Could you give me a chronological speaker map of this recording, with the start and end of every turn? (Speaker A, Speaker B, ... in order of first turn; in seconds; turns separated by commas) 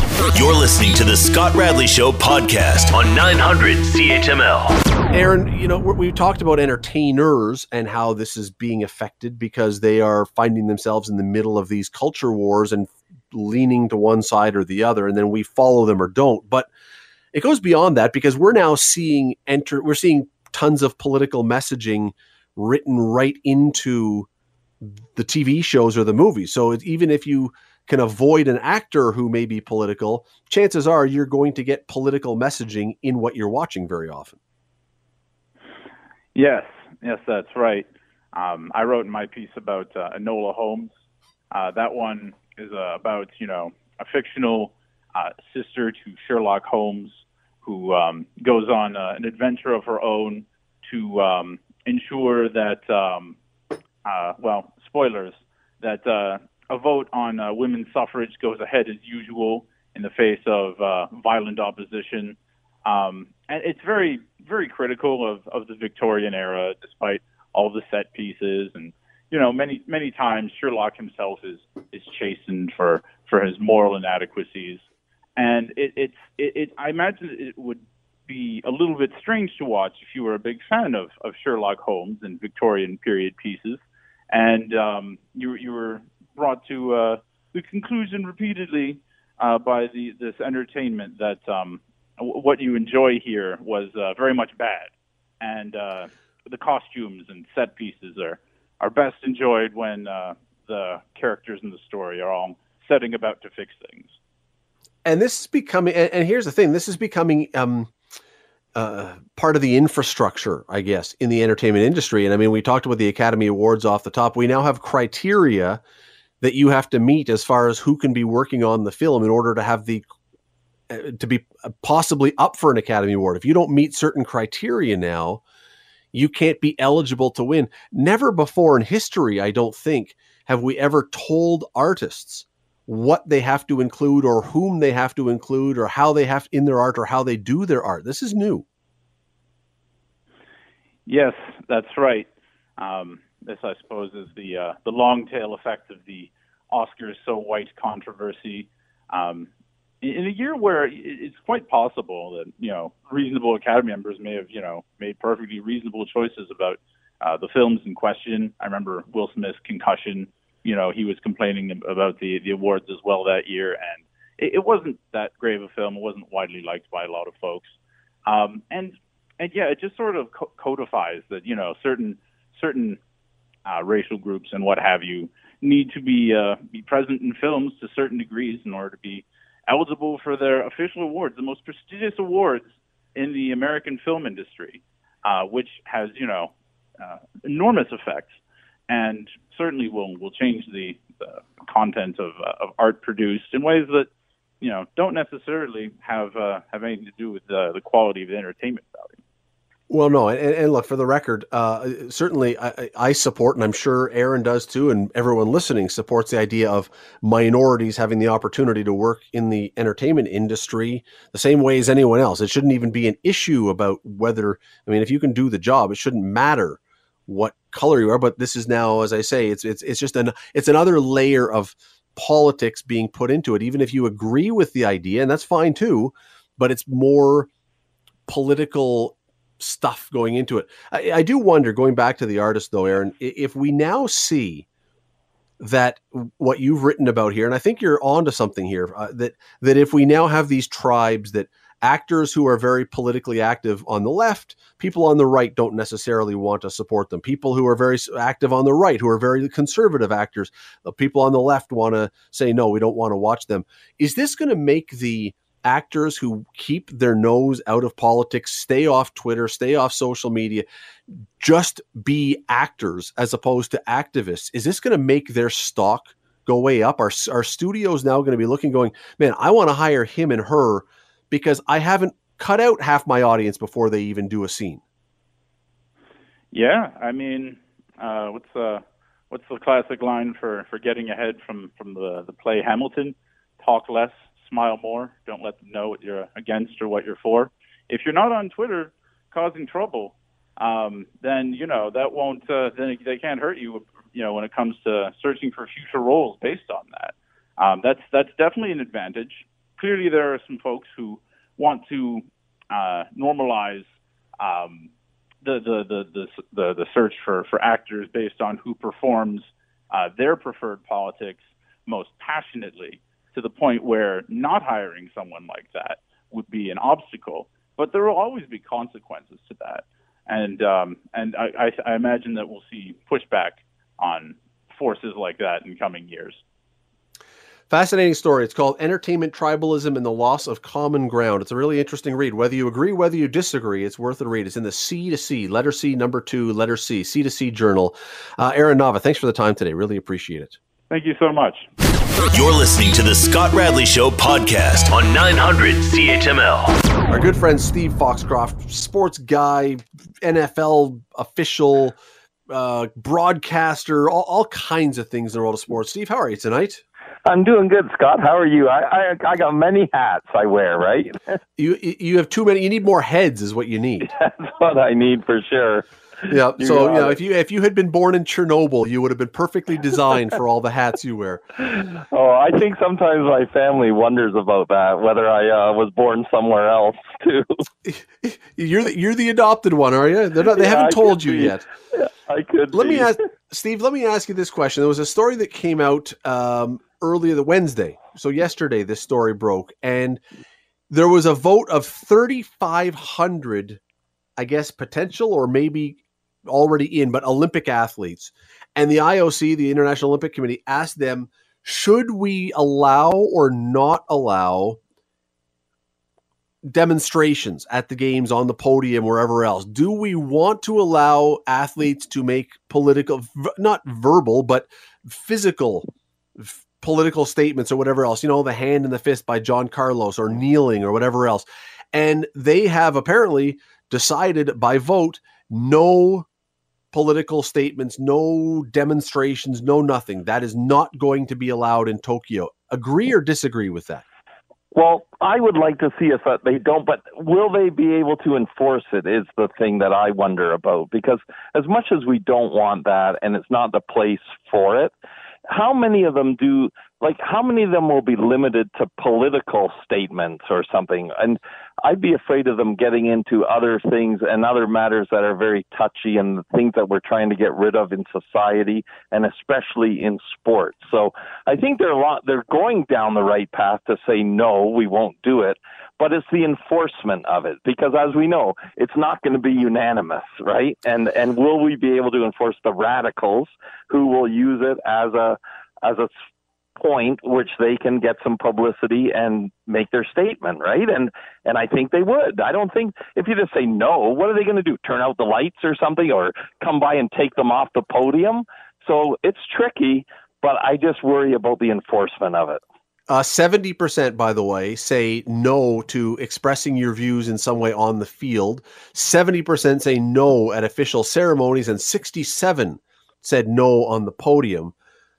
Speaker A: 0.3-4.8, Speaker B: 5.1-16.7, Speaker B: 17.3-24.3, Speaker B: 24.8-34.4, Speaker C: 36.4-40.9, Speaker C: 41.5-53.4, Speaker C: 54.0-74.8, Speaker C: 75.4-94.9, Speaker C: 95.4-104.1, Speaker B: 105.0-107.9, Speaker B: 108.8-115.8, Speaker B: 116.4-120.1, Speaker B: 120.9-125.4, Speaker B: 126.1-138.7, Speaker C: 141.1-142.3, Speaker C: 142.8-149.5, Speaker C: 150.0-167.7, Speaker C: 168.3-173.0, Speaker C: 173.7-182.6, Speaker C: 183.2-188.4, Speaker C: 188.9-194.1, Speaker C: 194.6-199.2, Speaker B: 199.9-227.5, Speaker B: 228.3-234.7, Speaker B: 235.6-260.6, Speaker B: 261.4-274.8, Speaker C: 276.5-303.9, Speaker C: 304.4-304.9, Speaker C: 305.4-326.4, Speaker B: 327.7-340.6, Speaker C: 340.9-341.7, Speaker A: 342.3-347.0, Speaker B: 347.1-352.0, Speaker B: 352.5-356.8, Speaker D: 357.3-361.2, Speaker B: 361.6-364.1, Speaker D: 364.1-367.2, Speaker B: 366.3-371.4, Speaker D: 371.6-377.5, Speaker B: 377.9-381.6, Speaker D: 380.4-383.2, Speaker B: 382.7-390.2, Speaker B: 390.9-393.8, Speaker B: 394.4-404.8, Speaker B: 406.6-415.9, Speaker B: 416.4-426.3, Speaker B: 426.9-434.0, Speaker D: 434.8-444.9, Speaker D: 445.5-476.1, Speaker D: 476.8-492.6, Speaker B: 493.1-504.7